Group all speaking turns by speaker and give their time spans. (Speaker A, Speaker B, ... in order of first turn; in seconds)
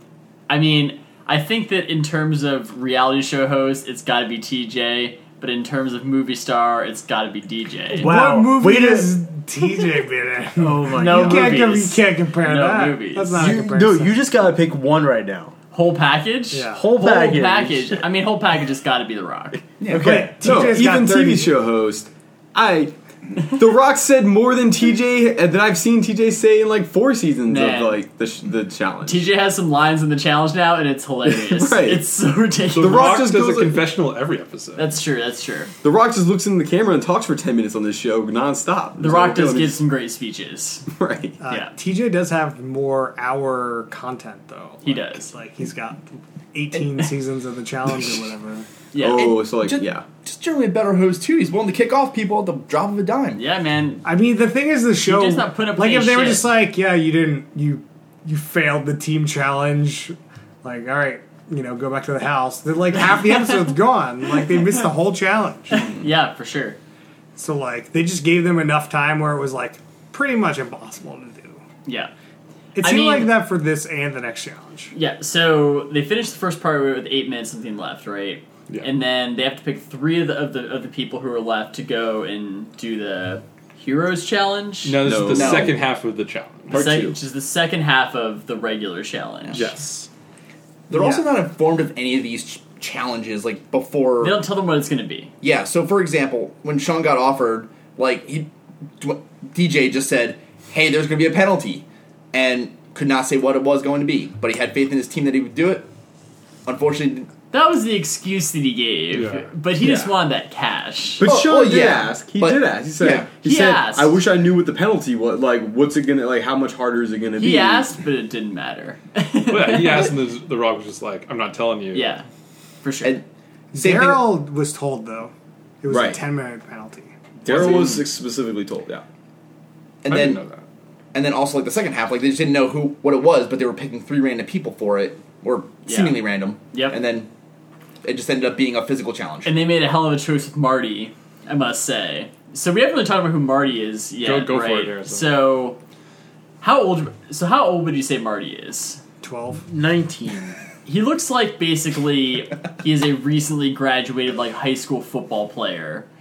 Speaker A: 0.5-8.1, 11.0-11.8, 12.4-13.6, 15.7-19.6, 27.5-28.0, 29.0-33.1, 34.8-35.7, 39.0-40.9, 44.8-45.3, 48.9-49.3, 53.3-54.1, 55.0-56.5, 65.8-66.8, 71.9-72.1, 72.8-73.4, 74.9-85.0, 86.7-89.7, 94.2-95.3, 107.5-111.2, 113.4-114.2, 117.4-120.1, 121.9-122.3, 122.8-123.2, 135.9-137.0, 139.4-145.8, 146.6-149.0, 150.8-156.1
Speaker B: 8.0-9.1, 10.6-12.0, 13.3-15.6, 16.7-18.1, 19.9-20.4, 149.5-150.6
Speaker C: 8.0-14.2, 16.5-16.9, 19.9-21.5, 41.4-48.7, 54.0-66.0, 67.4-71.6, 72.8-74.9, 123.7-127.2, 149.2-149.7
Speaker D: 19.8-20.2, 49.1-53.4, 85.3-85.7, 89.5-89.7, 90.9-94.4, 95.4-105.9, 106.7-107.3, 111.2-113.4, 123.8-124.2, 127.6-127.9, 130.0-130.4, 131.1-137.3, 138.0-139.6
Speaker E: 20.0-22.9, 23.5-29.2, 31.2-32.1, 32.8-33.9, 35.8-39.8, 40.9-41.4, 49.0-50.1, 85.0-85.8, 86.7-87.2, 109.8-110.1, 111.2-117.9, 125.9-126.2, 127.4-129.1
Speaker F: 32.8-35.0, 84.8-86.8, 89.5-90.1, 109.1-109.5, 119.5-122.2, 127.5-128.1, 130.1-130.6, 144.2-145.3